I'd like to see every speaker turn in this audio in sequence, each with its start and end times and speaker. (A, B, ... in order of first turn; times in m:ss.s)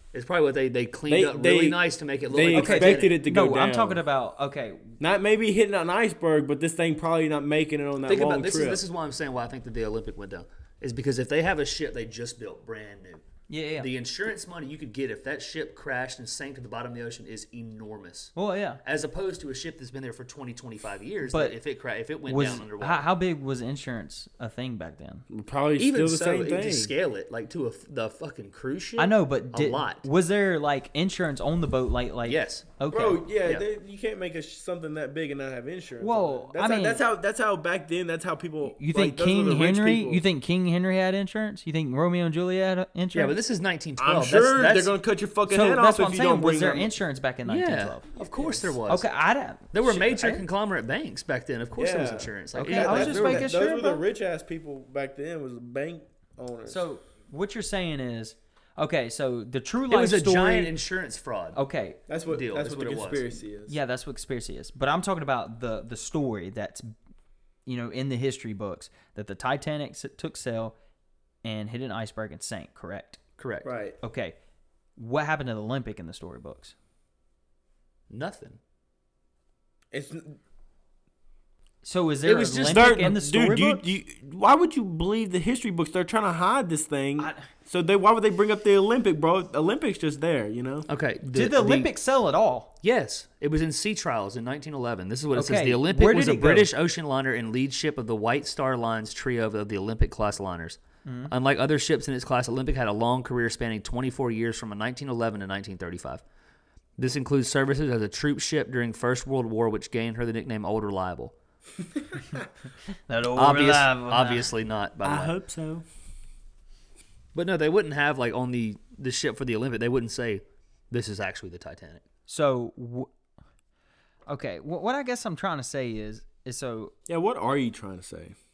0:00.1-0:03.2 A
0:01.1-0:04.0 B
0:02.5-0:05.0 C
0:05.0-0:08.8 B
0:08.0-0:13.2 A
0:13.5-0:13.9 C
0:13.8-0:23.0 A
0:18.4-0:18.8 C
0:21.3-0:21.6 C
0:22.3-0:25.2 C
0:25.3-0:26.9 B
0:25.8-0:30.1 A
0:29.0-0:33.2 C
0:32.2-0:32.7 A
0:32.9-0:40.2 B
0:36.0-0:37.0 C
0:38.7-0:43.4 C
0:43.1-0:44.9 A
0:44.0-0:46.9 B
0:45.5-0:48.1 C
0:47.4-0:49.1 A
0:48.9-0:50.4 C
0:49.7-0:53.6 A
0:51.8-0:56.8 B
0:52.5-0:54.0 C
0:56.6-1:00.7 C
0:59.9-1:01.6 A
1:01.5-1:02.0 C
1:02.1-1:03.8 B
1:02.3-1:03.2 A
1:03.7-1:06.9 C
1:07.6-1:10.7 C
1:11.4-1:13.2 C
1:13.4-1:13.7 A
1:13.6-1:14.0 B
1:14.0-1:14.4 C
1:15.0-1:16.7 C
1:18.1-1:18.6 A
1:19.9-1:20.4 B
1:21.8-1:23.8 C
1:22.2-1:22.9 A
1:22.7-1:30.9 B
1:27.2-1:27.4 C
1:30.9-1:31.9 A
1:31.3-1:32.7 C
1:32.8-1:46.2 A
1:35.3-1:36.7 C
1:41.0-1:41.3 C
1:47.0-1:51.3 A
1:53.1-1:54.5 C
1:53.4-1:55.4 A
1:55.0-1:55.8 B
1:57.3-2:02.0 A
2:02.3-2:03.1 C
2:04.3-2:06.9 C
2:07.1-2:08.3 B